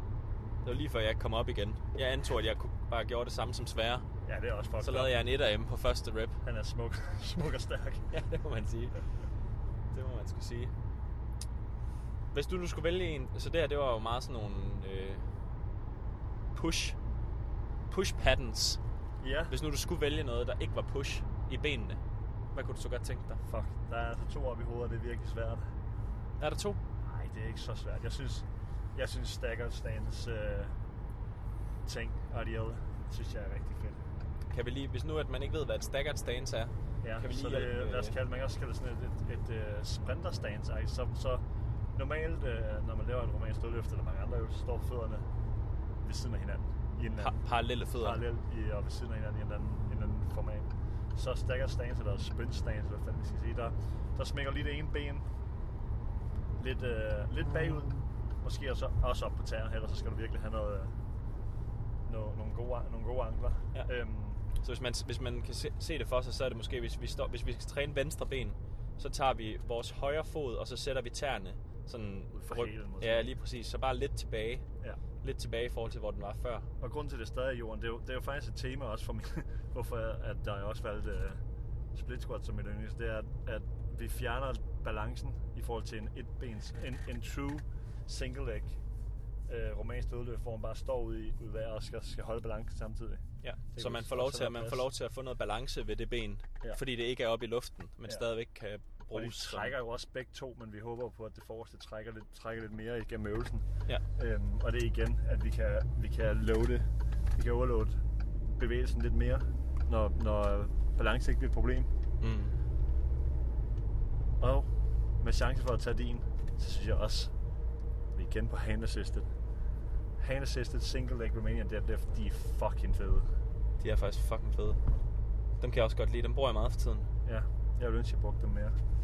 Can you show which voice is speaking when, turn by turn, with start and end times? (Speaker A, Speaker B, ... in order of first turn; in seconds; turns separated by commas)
Speaker A: 0.6-4.0, Speaker B: 4.3-5.2, Speaker A: 4.8-6.4, Speaker B: 6.4-8.1, Speaker A: 8.1-9.0, Speaker A: 9.9-10.7, Speaker A: 12.3-15.3, Speaker A: 16.6-17.0, Speaker A: 17.9-18.8, Speaker B: 19.2-19.5, Speaker A: 19.5-22.0, Speaker A: 22.5-23.4, Speaker B: 23.5-25.6, Speaker A: 26.4-26.8, Speaker B: 27.0-30.7, Speaker B: 31.9-34.0, Speaker A: 34.5-38.2, Speaker B: 37.0-41.4, Speaker B: 42.0-45.2, Speaker B: 46.0-47.4, Speaker A: 47.2-48.2, Speaker B: 48.0-55.2, Speaker B: 56.6-60.9, Speaker B: 62.1-64.4, Speaker A: 64.6-74.6, Speaker B: 72.3-73.3, Speaker A: 75.2-76.7, Speaker B: 76.8-81.4, Speaker B: 82.0-88.8, Speaker B: 89.5-93.2, Speaker A: 93.4-99.8, Speaker B: 93.7-94.9, Speaker B: 99.1-103.7, Speaker B: 104.2-108.0, Speaker B: 108.5-111.9, Speaker A: 112.2-112.6, Speaker B: 114.4-114.7, Speaker B: 115.2-117.3, Speaker B: 118.2-119.3, Speaker B: 120.2-123.3, Speaker A: 123.8-124.8, Speaker A: 125.6-127.1, Speaker B: 127.2-128.8